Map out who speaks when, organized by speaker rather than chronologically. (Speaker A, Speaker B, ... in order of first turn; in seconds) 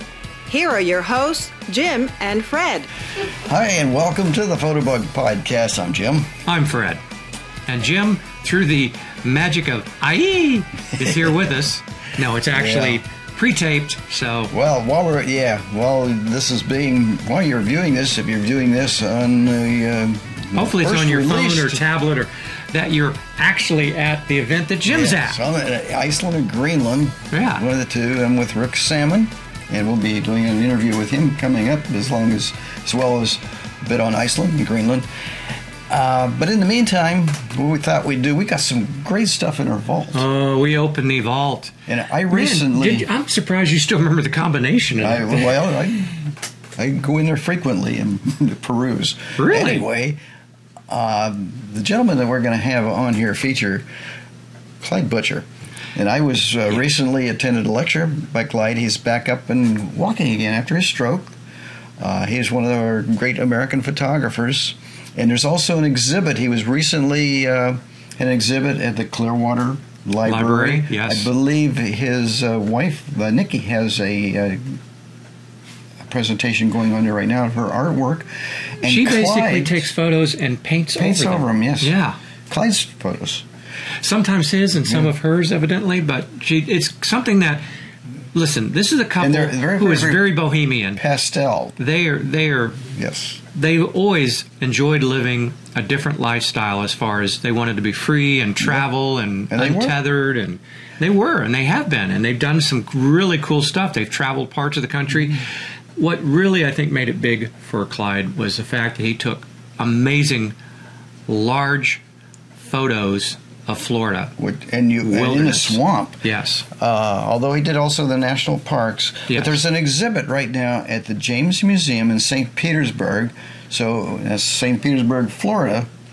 Speaker A: 0.5-2.9
Speaker B: 3.4-6.3, 12.5-13.0, 14.5-21.8, 24.9-35.1, 35.9-40.3, 41.9-43.1, 45.0-46.1, 46.8-50.2, 50.9-53.9, 54.8-61.4, 62.0-74.8, 76.1-78.3, 78.8-79.9, 80.9-81.9, 82.5-83.4, 84.9-85.1, 89.2-90.3, 91.0-91.8, 92.9-93.4, 98.6-98.9, 99.5-100.0, 114.4-125.9
Speaker C: 6.5-7.0, 7.7-14.5, 20.5-25.4, 27.3-27.6, 40.1-41.7, 42.3-45.7, 49.4-49.8, 70.2-71.3, 78.8-82.2, 84.0-87.6, 88.3-91.0, 91.8-92.8, 93.5-110.5, 111.3-112.0, 112.6-114.3, 115.0-116.6, 119.3-119.6